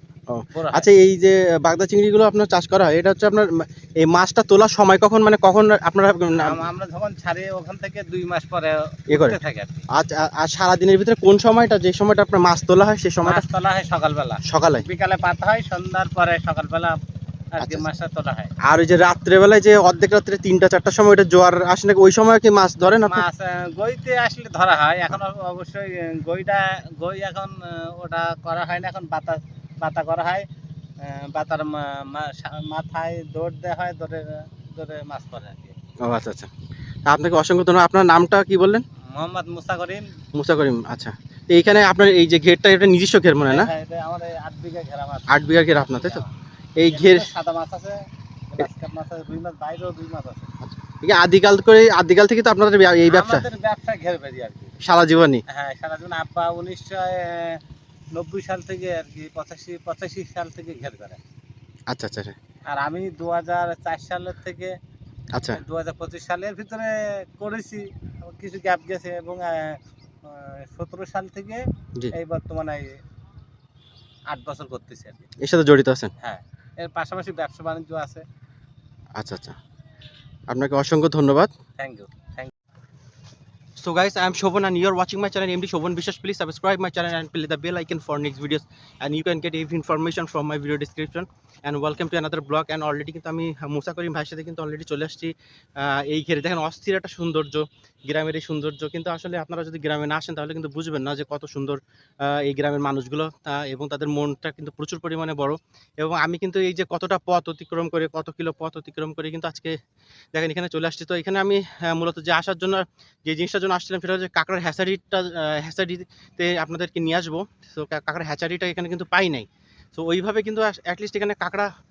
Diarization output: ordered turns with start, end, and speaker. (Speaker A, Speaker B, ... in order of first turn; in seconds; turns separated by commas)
Speaker A: 0.3-6.6, Speaker B: 0.5-0.9, Speaker B: 6.3-9.9, Speaker A: 9.1-9.4, Speaker A: 9.9-13.4, Speaker B: 13.2-17.0, Speaker A: 14.4-14.8, Speaker B: 17.5-18.5, Speaker A: 17.6-17.9, Speaker A: 18.6-23.3, Speaker B: 23.1-30.5, Speaker B: 31.0-35.7, Speaker A: 36.0-36.5, Speaker A: 37.1-38.8, Speaker B: 39.1-40.1, Speaker A: 40.3-43.7, Speaker B: 43.5-45.4, Speaker A: 45.3-46.2, Speaker B: 46.0-46.3, Speaker A: 46.8-47.3, Speaker B: 46.9-50.5, Speaker A: 50.6-53.5, Speaker B: 53.1-54.8, Speaker A: 54.8-55.4, Speaker B: 55.5-57.6, Speaker B: 58.1-61.2, Speaker A: 61.9-62.4, Speaker B: 62.7-64.8, Speaker A: 65.3-65.6, Speaker B: 65.5-73.0, Speaker B: 74.3-75.3, Speaker A: 75.4-76.1, Speaker B: 76.2-78.3, Speaker A: 79.2-79.6, Speaker A: 80.5-81.5, Speaker B: 81.8-82.5, Speaker A: 83.8-109.8, Speaker A: 110.3-121.7